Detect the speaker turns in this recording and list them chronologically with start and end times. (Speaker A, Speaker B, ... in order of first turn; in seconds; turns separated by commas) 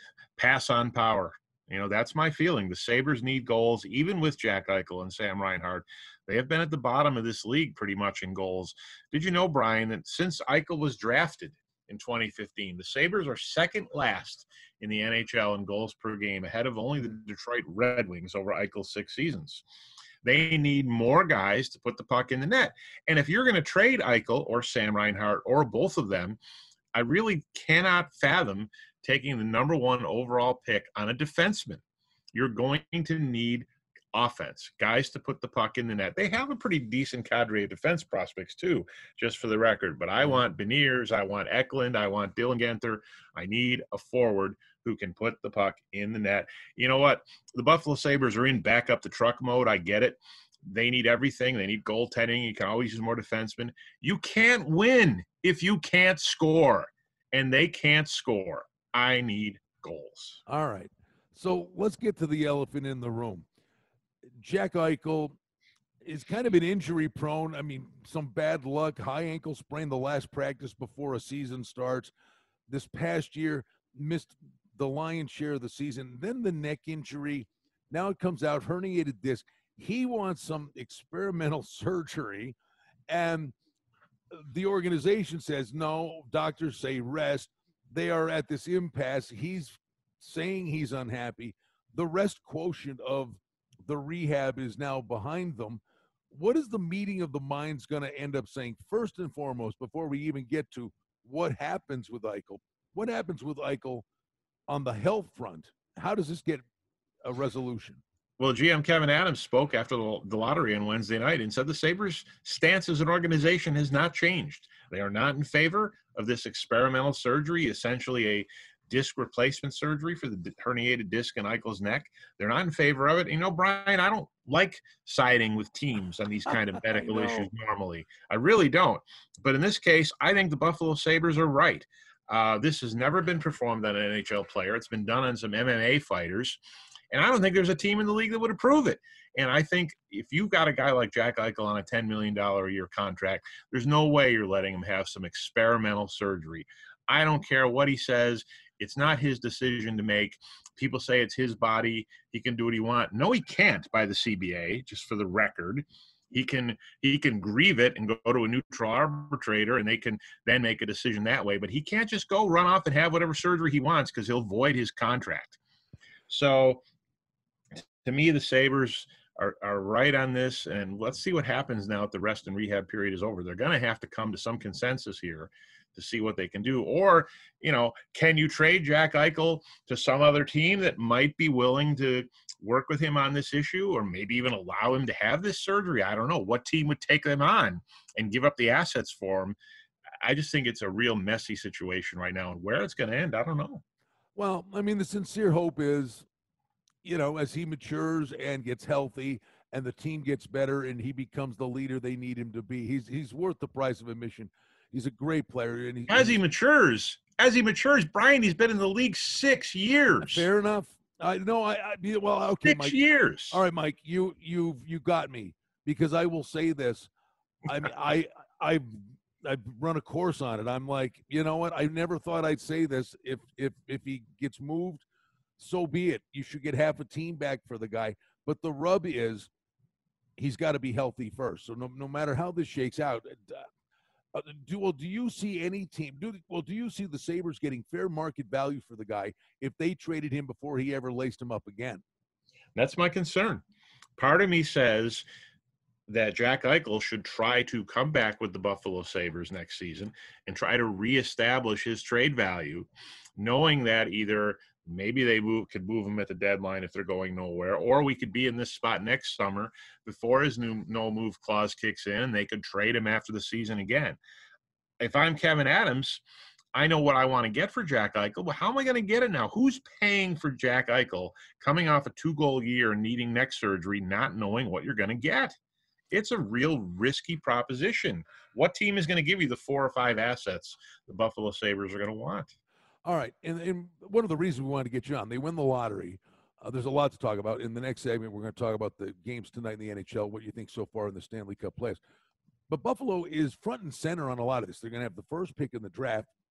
Speaker A: 0.4-19.6, Speaker A: 20.2-26.4, Speaker A: 26.9-31.8, Speaker A: 32.3-60.4, Speaker B: 60.5-63.5, Speaker B: 64.4-65.3, Speaker B: 66.0-72.1, Speaker B: 72.7-82.5, Speaker B: 83.1-83.5, Speaker B: 84.3-104.0, Speaker B: 104.7-106.6, Speaker B: 107.2-108.0, Speaker A: 108.4-136.6, Speaker B: 126.9-127.5, Speaker A: 137.1-165.6, Speaker A: 166.3-166.8, Speaker A: 168.0-189.6, Speaker A: 190.2-193.8, Speaker B: 194.3-196.2, Speaker B: 197.0-206.4, Speaker A: 206.1-210.5, Speaker B: 210.2-213.0, Speaker A: 212.6-213.6, Speaker B: 213.5-217.1, Speaker B: 217.7-225.0, Speaker B: 225.6-229.5, Speaker B: 230.4-233.7, Speaker B: 234.3-242.0, Speaker A: 242.8-243.6, Speaker A: 244.2-245.2, Speaker A: 246.1-264.2, Speaker A: 265.0-266.2, Speaker A: 266.7-275.5, Speaker A: 276.1-282.5, Speaker B: 283.0-292.0, Speaker B: 292.7-296.3